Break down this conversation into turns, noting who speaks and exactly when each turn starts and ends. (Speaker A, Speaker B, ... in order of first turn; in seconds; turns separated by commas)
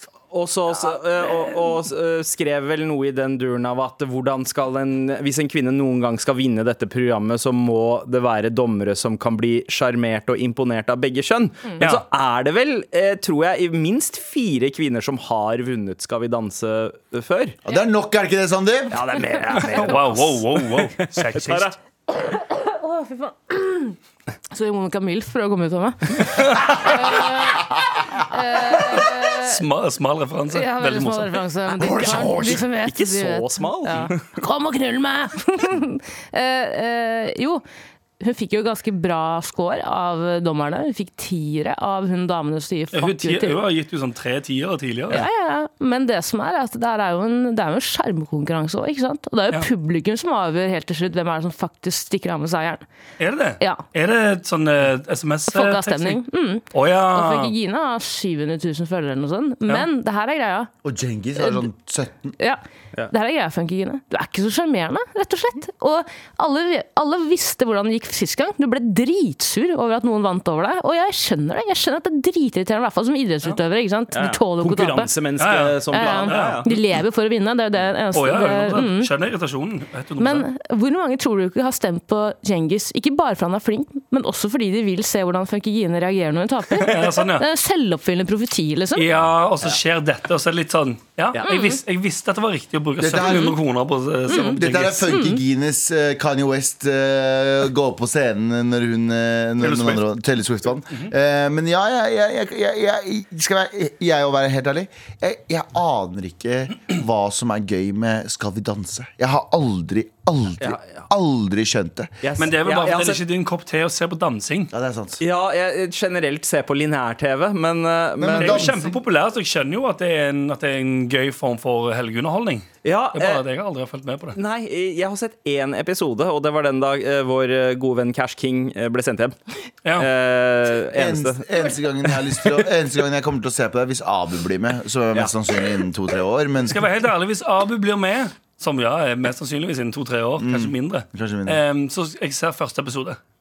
Speaker A: 0.3-17.6, Speaker B: 17.6-19.0, Speaker A: 18.9-21.7, Speaker C: 19.5-21.7, Speaker D: 22.1-24.0, Speaker D: 24.5-29.6, Speaker C: 26.3-27.3, Speaker C: 28.7-31.4, Speaker D: 30.5-37.6, Speaker A: 31.8-34.2, Speaker D: 38.2-43.6, Speaker C: 42.9-45.2, Speaker D: 45.1-52.8, Speaker C: 53.2-56.2, Speaker D: 55.5-60.7, Speaker C: 56.7-57.5, Speaker B: 60.8-62.3, Speaker D: 61.4-61.6, Speaker D: 62.4-75.1, Speaker A: 74.1-76.7, Speaker C: 75.4-76.8, Speaker D: 75.9-79.1, Speaker C: 78.1-80.5, Speaker D: 80.2-89.1, Speaker C: 86.7-87.4, Speaker C: 88.9-95.1, Speaker D: 91.4-91.8, Speaker B: 93.0-93.6, Speaker D: 93.2-93.5, Speaker D: 94.3-95.4, Speaker B: 94.3-112.2, Speaker C: 99.6-100.1, Speaker A: 110.6-111.0, Speaker A: 112.2-113.2, Speaker C: 112.4-114.7, Speaker B: 114.7-115.2, Speaker A: 115.2-118.8, Speaker B: 118.2-118.8, Speaker C: 118.3-124.4, Speaker A: 122.8-123.4, Speaker A: 124.3-129.3, Speaker A: 130.0-131.4, Speaker B: 130.9-136.8, Speaker C: 136.6-143.2, Speaker B: 140.4-141.6